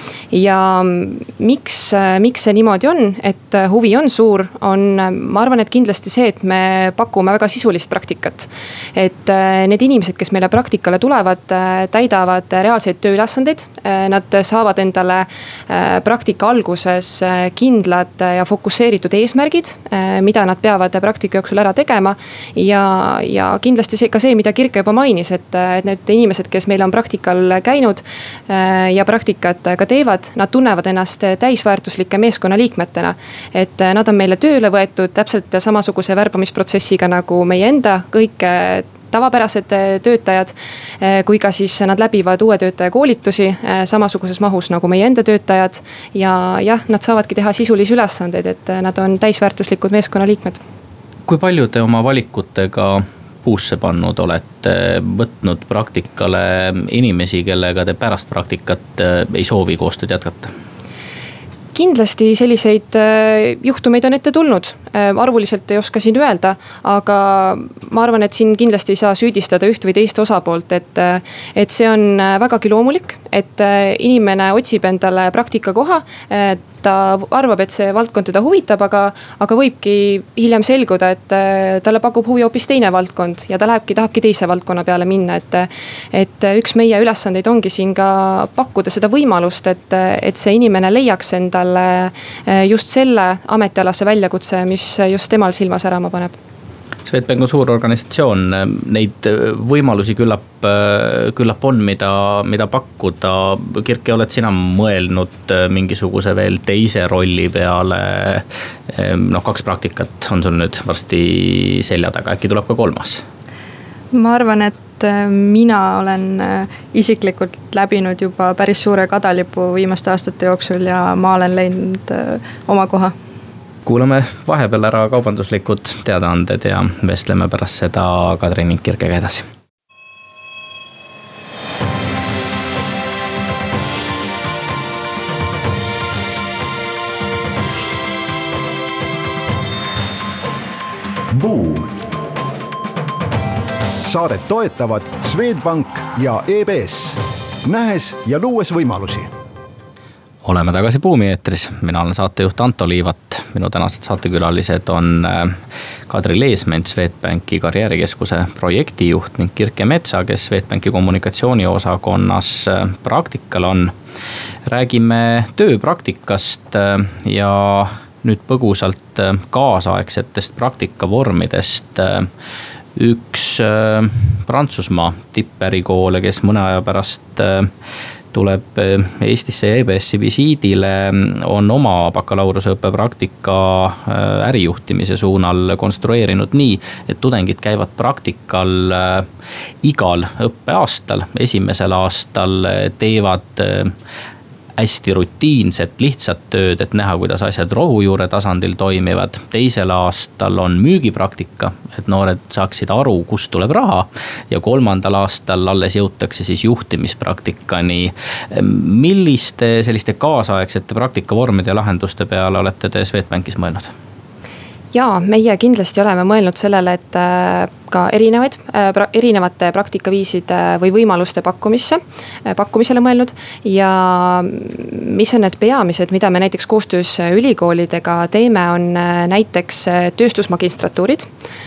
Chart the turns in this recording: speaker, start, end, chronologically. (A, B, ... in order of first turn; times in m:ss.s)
0:00.3-0:50.6 A
0:51.3-1:00.5 B
1:01.7-1:36.4 A
1:37.0-1:53.2 B
1:54.1-2:03.2 C
2:03.9-2:09.5 B
2:21.3-2:22.0 D
2:24.0-2:29.3 D
2:30.4-2:35.6 B
2:36.1-2:43.9 B
2:44.7-2:52.3 B
2:53.0-2:57.7 B
2:58.3-3:09.3 B
3:09.8-3:13.9 B
3:14.8-3:33.9 B
3:34.9-3:51.3 A